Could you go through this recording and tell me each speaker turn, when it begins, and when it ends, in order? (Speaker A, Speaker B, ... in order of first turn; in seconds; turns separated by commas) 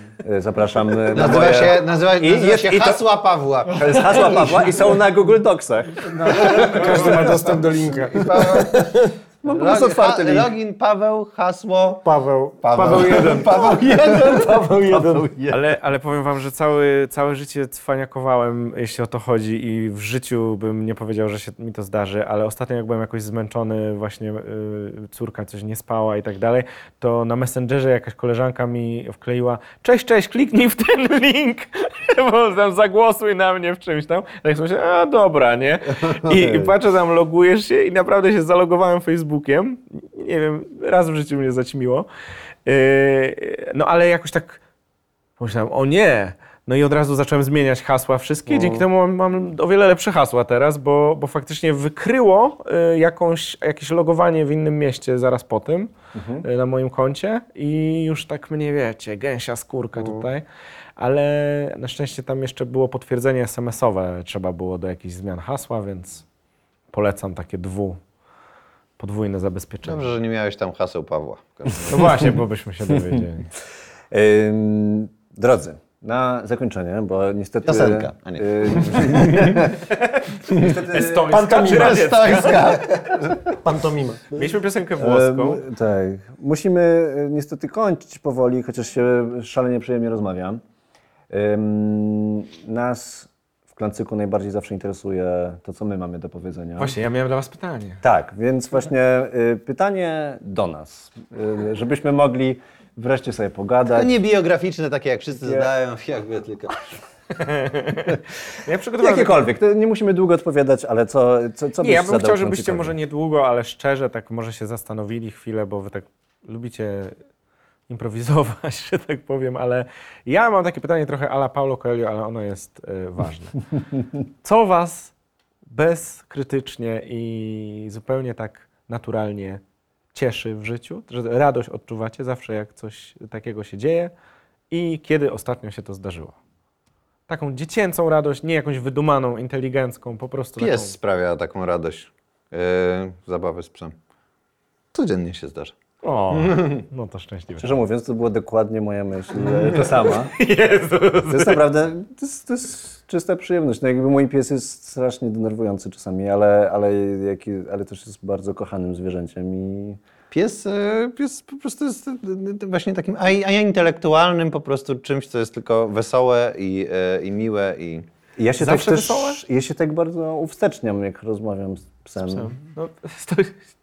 Speaker A: 0.2-3.0, Speaker B: 1.1-4.7, Speaker A: 3.7-7.5, Speaker C: 6.1-9.1, Speaker B: 8.1-8.9, Speaker A: 9.4-10.5, Speaker B: 9.5-12.0, Speaker C: 12.0-13.7, Speaker B: 12.6-15.1, Speaker A: 12.7-15.6, Speaker D: 15.5-42.1, Speaker A: 36.0-36.7, Speaker D: 42.6-44.6, Speaker D: 45.4-55.9, Speaker C: 48.5-48.9, Speaker A: 56.1-56.4, Speaker D: 56.4-60.4, Speaker C: 60.0-60.2, Speaker D: 61.0-66.2, Speaker D: 66.9-68.0, Speaker D: 69.0-70.1, Speaker B: 69.8-72.3, Speaker D: 71.8-73.5, Speaker A: 72.9-73.2, Speaker A: 74.1-79.8, Speaker B: 77.6-79.7, Speaker D: 79.9-80.3, Speaker B: 80.5-80.8, Speaker A: 80.5-81.5, Speaker C: 80.7-82.1, Speaker D: 81.0-82.8, Speaker B: 81.6-83.5, Speaker C: 83.6-84.3, Speaker D: 84.3-85.6, Speaker A: 85.0-90.6, Speaker A: 91.3-97.0, Speaker D: 96.8-98.0, Speaker A: 98.0-104.1, Speaker B: 103.9-106.8, Speaker A: 105.4-105.7, Speaker D: 107.3-109.4, Speaker A: 109.0-113.0, Speaker D: 111.8-117.2, Speaker D: 117.9-123.6, Speaker D: 124.4-125.1, Speaker D: 125.7-129.6, Speaker D: 130.1-134.1, Speaker D: 134.7-136.4, Speaker D: 137.3-140.9, Speaker B: 140.6-143.9, Speaker B: 144.9-145.7, Speaker D: 146.0-147.7, Speaker B: 146.4-146.7, Speaker A: 147.6-150.3, Speaker D: 150.1-151.6, Speaker A: 151.3-160.0, Speaker B: 160.3-168.0, Speaker A: 168.4-172.5, Speaker D: 168.6-169.4, Speaker D: 172.2-173.6